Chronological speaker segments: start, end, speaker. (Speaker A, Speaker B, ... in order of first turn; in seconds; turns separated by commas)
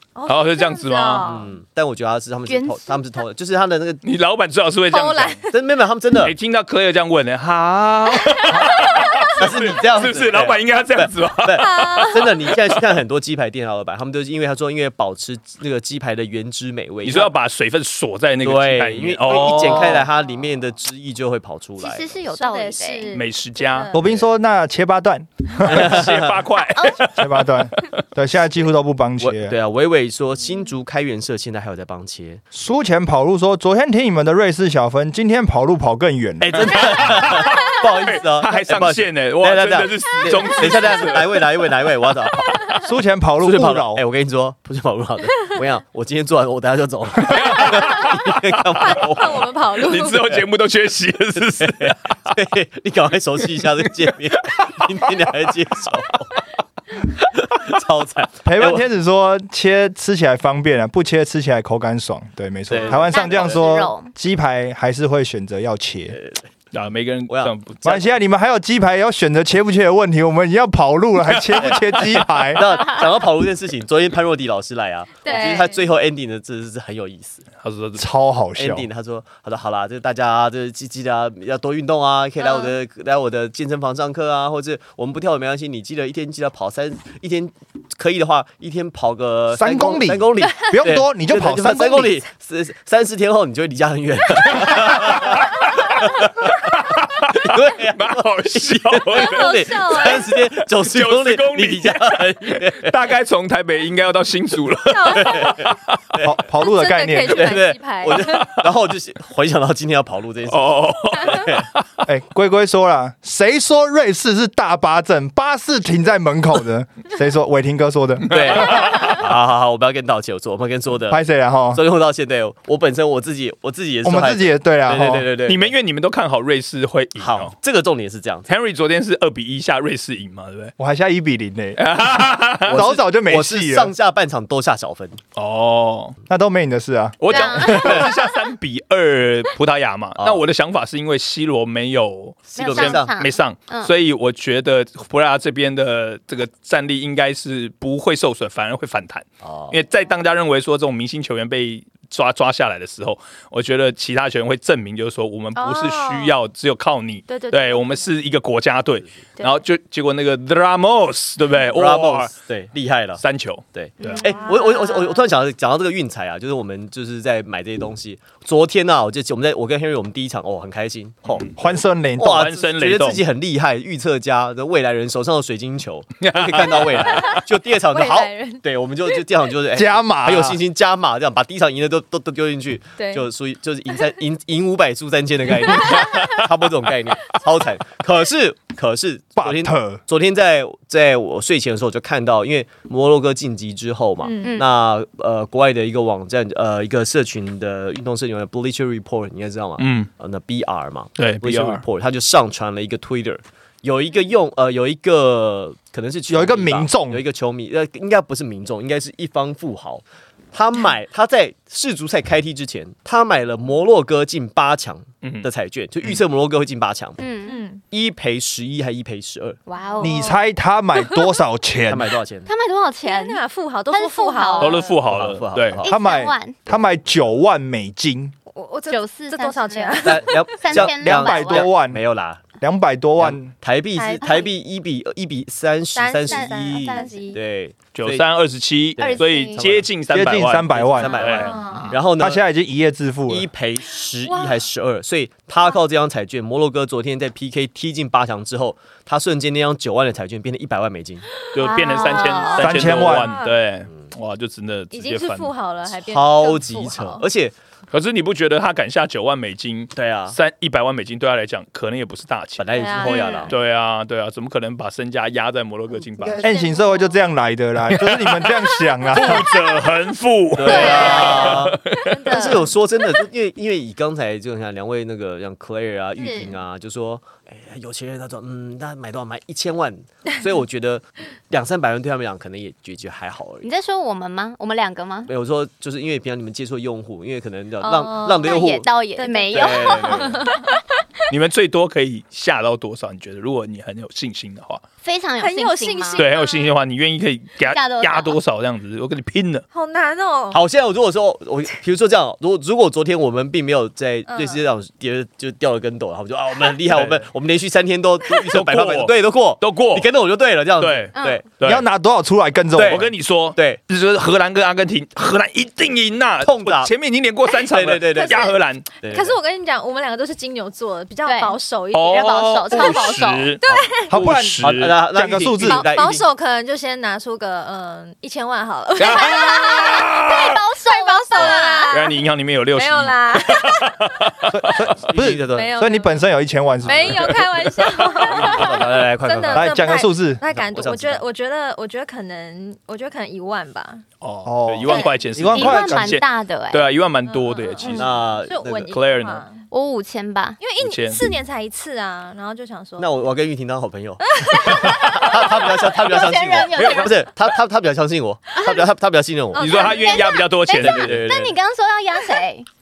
Speaker A: 0.1-1.6, Speaker B: 0.3-1.3, Speaker C: 1.2-4.0, Speaker D: 2.5-3.0, Speaker B: 4.0-5.4, Speaker A: 4.9-5.7, Speaker C: 5.5-6.3, Speaker B: 6.2-13.0, Speaker A: 8.1-9.4, Speaker C: 9.3-17.3, Speaker A: 11.6-12.5, Speaker B: 17.0-20.1, Speaker C: 18.4-22.1, Speaker D: 21.8-23.1, Speaker A: 22.3-24.1, Speaker B: 23.1-23.9, Speaker E: 23.9-26.0, Speaker C: 24.0-24.2, Speaker B: 25.6-28.0, Speaker C: 25.6-26.4, Speaker D: 26.6-27.0, Speaker E: 27.1-29.6, Speaker C: 29.2-32.4, Speaker E: 32.5-37.1, Speaker C: 36.4-42.8, Speaker B: 36.5-41.6, Speaker E: 42.8-44.0, Speaker C: 43.4-49.5, Speaker B: 47.2-48.9, Speaker A: 48.8-50.3, Speaker B: 49.8-52.3, Speaker C: 51.4-56.4, Speaker B: 54.4-55.4, Speaker C: 57.0-58.8, Speaker E: 58.4-66.2, Speaker C: 62.7-63.6, Speaker D: 62.8-64.1, Speaker C: 66.1-66.5, Speaker B: 66.7-68.1, Speaker E: 67.8-72.7, Speaker B: 71.2-72.6, Speaker C: 72.5-77.5, Speaker D: 72.7-73.1, Speaker D: 75.2-75.7, Speaker A: 75.2-75.8, Speaker B: 77.6-78.1, Speaker E: 78.0-78.9, Speaker C: 78.6-103.0, Speaker D: 82.4-82.7, Speaker E: 89.5-92.2, Speaker B: 94.5-96.1, Speaker B: 96.7-105.8, Speaker A: 99.1-100.3, Speaker A: 104.8-105.6, Speaker C: 105.1-106.3, Speaker E: 106.2-107.6, Speaker A: 106.5-108.5, Speaker C: 107.2-111.7, Speaker B: 108.2-108.7, Speaker B: 110.5-111.8, Speaker E: 112.0-118.6, Speaker B: 118.2-119.3, Speaker C: 118.3-121.2, Speaker E: 121.1-121.8, Speaker C: 121.7-125.7, Speaker E: 124.0-125.3, Speaker B: 125.4-127.5, Speaker C: 127.2-128.5, Speaker B: 128.5-130.7, Speaker E: 130.8-131.8, Speaker B: 131.8-133.0, Speaker C: 132.6-135.2, Speaker E: 132.7-133.9, Speaker B: 135.3-136.2, Speaker E: 136.3-137.8, Speaker B: 137.2-162.3, Speaker D: 137.3-138.1, Speaker C: 137.7-138.1, Speaker C: 142.5-143.2, Speaker D: 142.6-143.9, Speaker C: 149.4-149.8, Speaker A: 155.5-156.4, Speaker A: 157.3-158.1, Speaker C: 161.7-163.2, Speaker B: 163.2-163.6, Speaker C: 163.7-171.6, Speaker D: 164.0-164.4, Speaker A: 164.0-165.3, Speaker E: 171.6-172.5, Speaker C: 172.2-217.2, Speaker B: 172.2-173.2, Speaker B: 176.2-177.3, Speaker A: 177.0-178.6, Speaker E: 179.7-180.6, Speaker A: 183.0-183.3, Speaker A: 185.6-186.4, Speaker E: 189.4-190.0, Speaker A: 194.2-194.6, Speaker B: 199.8-200.1, Speaker B: 201.2-201.8, Speaker E: 206.3-207.2, Speaker B: 215.2-215.5, Speaker D: 217.2-217.6, Speaker A: 217.4-217.8, Speaker C: 217.8-219.6, Speaker D: 219.7-220.3, Speaker A: 219.8-220.4, Speaker E: 220.0-222.1, Speaker C: 221.9-222.5, Speaker D: 222.5-224.9, Speaker A: 223.0-224.9, Speaker B: 224.6-225.8, Speaker C: 225.1-225.9, Speaker D: 225.8-226.6, Speaker E: 225.9-228.3, Speaker A: 228.5-230.7, Speaker D: 228.9-231.7, Speaker C: 230.0-232.4, Speaker E: 230.8-232.0, Speaker E: 232.6-233.5, Speaker C: 233.2-238.2, Speaker A: 233.9-234.5, Speaker A: 235.9-237.4, Speaker D: 236.2-237.4, Speaker B: 237.9-242.0, Speaker C: 239.0-239.9, Speaker D: 239.0-239.6, Speaker E: 240.1-241.2, Speaker C: 240.8-242.4, Speaker D: 241.0-241.9, Speaker A: 241.2-241.9, Speaker E: 242.2-243.5, Speaker C: 243.3-251.2, Speaker B: 251.5-255.5, Speaker D: 251.6-252.7, Speaker A: 251.6-253.6, Speaker E: 252.6-253.3, Speaker A: 254.9-257.2, Speaker C: 255.9-257.5, Speaker B: 257.9-266.4, Speaker C: 259.9-260.4, Speaker C: 262.6-263.5, Speaker A: 262.7-263.6, Speaker D: 263.0-263.4, Speaker A: 266.2-267.1, Speaker E: 266.4-269.5, Speaker B: 267.9-272.6, Speaker C: 270.5-283.7, Speaker A: 270.6-272.7, Speaker D: 276.1-276.5, Speaker D: 283.6-285.3, Speaker C: 285.3-288.8, Speaker A: 287.8-290.8, Speaker D: 288.4-290.4, Speaker C: 289.5-290.4, Speaker B: 291.3-294.8, Speaker D: 295.0-296.3, Speaker A: 295.4-296.7, Speaker B: 296.2-299.6, Speaker D: 297.6-298.4, Speaker A: 299.7-300.6, Speaker C: 300.5-311.4, Speaker A: 304.3-304.6, Speaker B: 306.9-307.2, Speaker B: 308.5-310.1, Speaker B: 310.8-311.8, Speaker D: 311.1-311.4, Speaker E: 311.6-313.1, Speaker C: 312.7-313.8, Speaker B: 312.8-318.9, Speaker C: 316.4-316.9, Speaker C: 317.7-318.4, Speaker A: 318.1-322.4, Speaker C: 319.0-319.3, Speaker D: 321.2-323.6, Speaker B: 321.9-325.0, Speaker A: 323.6-324.1, Speaker E: 324.1-325.9, Speaker C: 324.6-326.2, Speaker A: 325.6-330.1, Speaker B: 329.0-330.6, Speaker D: 329.0-332.0, Speaker A: 330.8-332.2, Speaker B: 331.4-334.9, Speaker A: 332.7-334.2, Speaker E: 334.5-337.4, Speaker C: 335.0-335.7, Speaker A: 335.5-336.2, Speaker C: 336.8-337.3, Speaker A: 336.8-344.0, Speaker C: 338.0-339.8, Speaker E: 339.5-340.4, Speaker C: 340.4-341.2, Speaker B: 344.2-348.1, Speaker E: 344.4-346.2, Speaker D: 345.5-346.9, Speaker A: 347.3-349.6, Speaker C: 347.9-348.9, Speaker B: 348.9-349.4, Speaker D: 349.7-350.6, Speaker A: 350.6-353.1, Speaker B: 350.8-351.2, Speaker C: 353.0-359.9, Speaker A: 354.3-355.7, Speaker D: 355.8-357.2, Speaker B: 356.8-357.1, Speaker A: 359.5-360.4, Speaker B: 359.6-361.2, Speaker D: 359.7-362.6, Speaker C: 360.8-361.6